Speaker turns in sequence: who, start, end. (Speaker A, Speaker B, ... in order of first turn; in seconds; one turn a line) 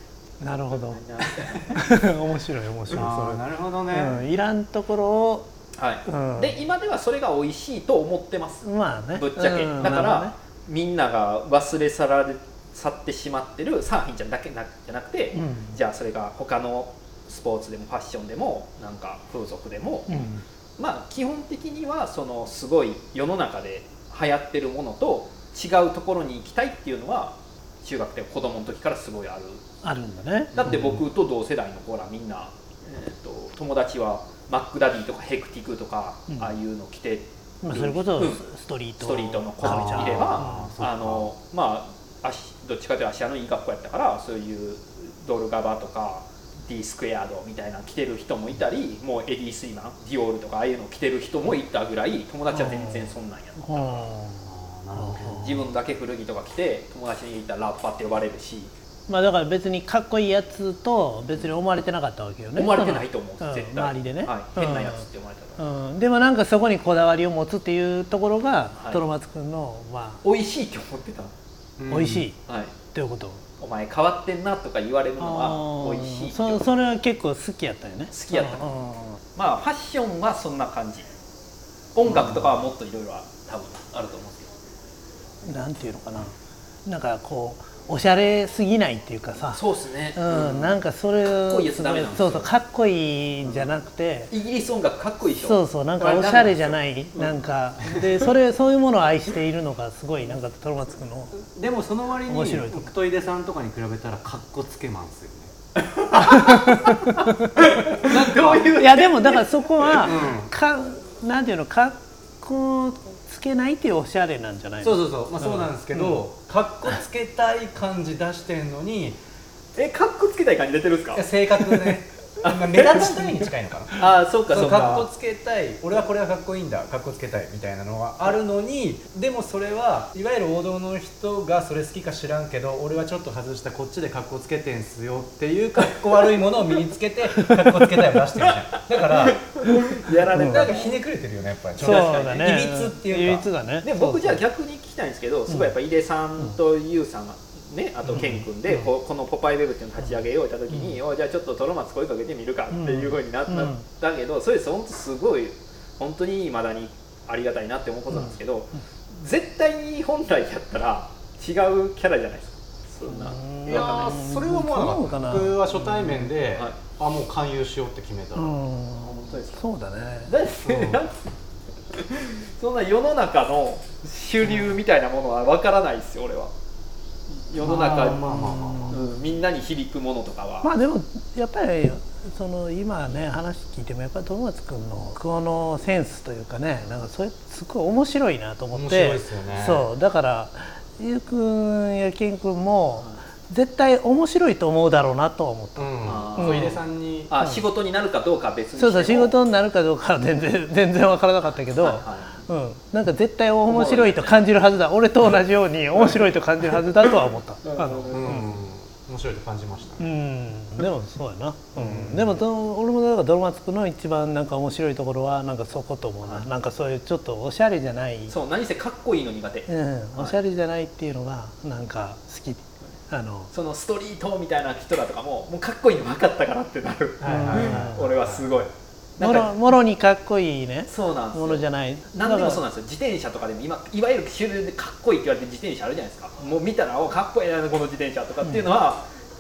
Speaker A: 0.4-1.0
Speaker B: 0.7-1.9
Speaker A: 1.7-5.5
Speaker C: 2.9-4.2
Speaker B: 5.8-20.2
Speaker A: 6.0-6.6
Speaker A: 8.6-10.3
Speaker A: 15.3-15.8
Speaker A: 20.1-20.4
Speaker B: 20.8-29.6
Speaker A: 29.8-30.6
Speaker B: 30.5-38.4
Speaker C: 30.6-31.0
Speaker A: 37.6-40.8
Speaker B: 39.0-54.1
Speaker C: 39.6-41.3
Speaker A: 52.5-55.5
Speaker C: 54.4-55.7
Speaker B: 55.2-58.7
Speaker A: 59.1-65.0
Speaker B: 62.5-65.6
Speaker A: 65.6-70.2
Speaker B: 68.8-69.0
Speaker B: 70.2-71.3
Speaker C: 71.8-72.3
Speaker A: 71.9-72.4
Speaker B: 72.5-72.7
Speaker A: 72.9-73.4
Speaker B: 73.6-76.6
Speaker A: 75.2-79.2
Speaker B: 78.1-78.7
Speaker B: 79.3-81.0
Speaker B: 81.9-84.5
Speaker A: 82.1-82.4
Speaker C: 82.1-82.4
Speaker A: 85.4-86.3
Speaker A: 86.8-89.6
Speaker B: 89.5-92.5
Speaker A: 90.2-94.3
Speaker B: 94.3-97.4
Speaker A: 95.4-101.3
Speaker C: 101.4-105.5
Speaker A: 102.3-102.9
Speaker B: 105.8-110.1
Speaker A: 106.1-107.6
Speaker C: 107.9-108.7
Speaker A: 108.5-116.2
Speaker C: 110.0-110.5
Speaker C: 114.8-119.2
Speaker B: 119.8-121.8
Speaker C: 121.1-139.5
Speaker B: 122.4-123.4
Speaker B: 123.9-125.1
Speaker B: 139.1-141.0
Speaker A: 140.3-140.7
Speaker C: 140.3-143.5
Speaker B: 141.8-142.6
Speaker A: 141.8-144.4
Speaker B: 143.8-164.2
Speaker A: 148.1-148.9
Speaker A: 152.7-153.8
Speaker A: 163.1-166.3
Speaker C: 163.7-168.6
Speaker A: 168.3-170.3
Speaker B: 169.0-169.6
Speaker B: 170.3-171.3
Speaker C: 170.6-171.0
Speaker B: 171.9-176.5
Speaker B: 177.3-178.3
Speaker C: 177.6-179.0
Speaker A: 177.6-179.1
Speaker B: 178.9-180.7
Speaker A: 180.6-196.8
Speaker C: 188.7-189.8
Speaker C: 195.8-197.3
Speaker B: 196.1-199.3
Speaker A: 198.8-208.5
Speaker B: 201.8-202.3
Speaker B: 203.7-204.4
Speaker B: 207.6-208.4
Speaker C: 208.1-210.1
Speaker A: 210.0-218.3
Speaker C: 211.8-212.4
Speaker B: 218.3-220.3
Speaker A: 219.7-223.5
Speaker B: 223.5-229.5
Speaker C: 227.2-228.6
Speaker A: 227.2-228.0
Speaker A: 229.2-232.6
Speaker B: 230.9-239.1